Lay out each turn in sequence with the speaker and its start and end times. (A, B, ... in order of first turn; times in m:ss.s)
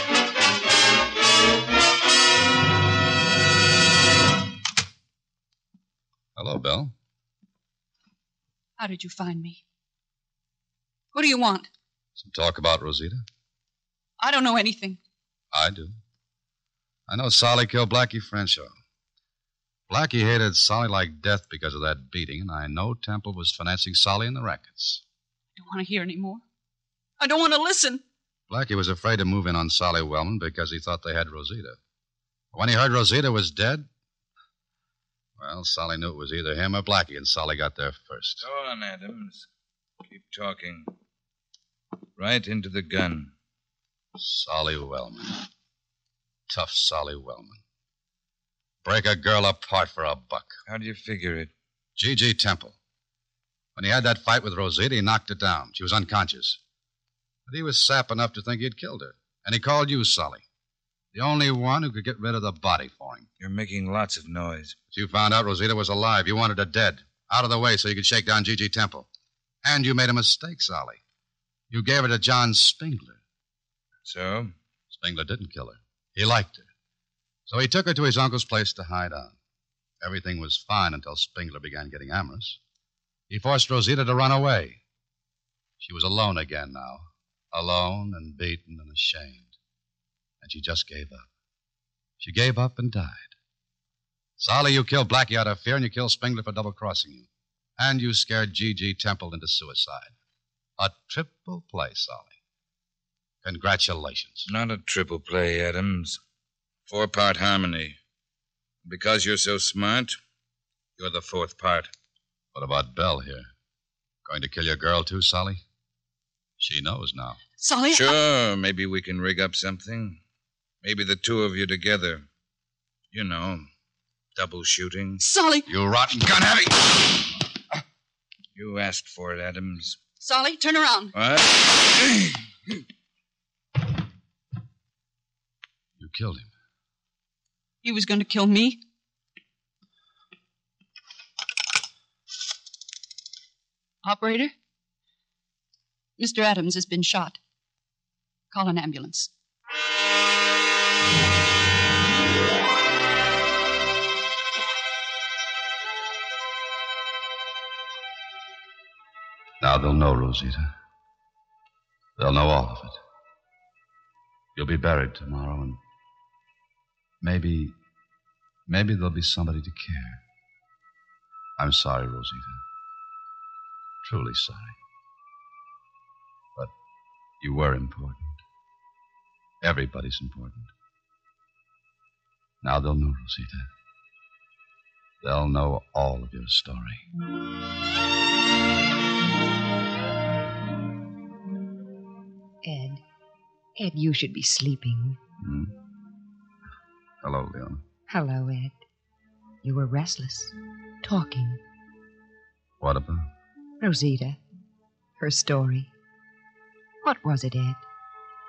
0:06.4-0:06.9 A
0:08.8-0:09.6 B
0:11.1-0:11.7 B
0:12.2-0:13.2 A
0:14.2-0:15.0 B
0:15.5-0:16.0 A
0:17.1-0:18.7 A
0:19.9-0:25.0 A
0:25.6-0:26.4 B
0:27.2-0:28.0 B
0:28.5-0:31.8 A
0:32.5-0:33.9 A
0:35.4-0:38.5 A
0:38.4-0:39.5 C
0:40.1-0:40.9 C
0:42.2-0:43.3 C
0:44.2-0:45.4 A
0:46.5-0:47.6 A
0:48.8-0:50.5 A
0:50.7-0:51.5 C
0:52.0-0:52.8 A
0:53.8-0:56.6 A
0:57.5-1:00.4 A
1:01.1-1:03.3 A
1:03.4-1:04.8 C
1:04.9-1:09.1 A
1:09.6-1:11.0 A
1:11.7-1:13.2 A
1:14.0-1:14.5 C
1:14.9-1:16.7 A
1:17.5-1:19.4 A
1:20.0-1:22.6 A
1:23.3-1:24.8 A
1:25.8-1:29.6 A
1:30.4-1:31.3 A
1:32.2-1:33.3 A
1:34.4-1:37.3 A
1:37.8-1:40.1 A
1:40.8-1:42.4 A
1:43.4-1:44.5 A
1:44.5-1:46.2 C
1:46.9-1:48.0 C
1:48.8-1:50.2 C
1:51.0-1:51.9 C
1:52.5-1:53.5 A
1:54.2-1:55.6 A
1:56.6-1:57.4 A
1:57.6-1:58.2 B
1:57.9-2:00.2 C
2:00.8-2:02.3 C
2:03.1-2:03.7 C
2:04.4-2:05.2 C
2:05.2-2:05.7 B
2:05.7-2:07.2 A
2:08.6-2:10.0 C
2:10.2-2:11.1 B
2:11.1-2:12.4 C
2:16.0-2:16.5 A
2:17.8-2:18.8 B
2:24.0-2:24.5 B
2:26.2-2:27.4 B
2:28.5-2:29.3 B
2:39.6-2:40.7 A
2:42.2-2:43.0 A
2:44.6-2:45.8 A
2:47.2-2:47.8 A
2:48.7-2:50.2 A
2:51.6-2:52.6 A
2:54.0-2:54.8 A
2:57.4-2:58.4 A
2:59.6-3:00.7 A
3:02.6-3:03.7 A
3:05.2-3:07.0 A
3:12.6-3:13.0 D
3:13.8-3:15.2 D
3:15.4-3:15.7 A
3:17.2-3:17.8 A
3:18.1-3:18.8 D
3:19.6-3:21.6 D
3:22.8-3:23.3 A
3:23.8-3:24.4 D
3:25.2-3:25.9 D
3:27.0-3:27.8 D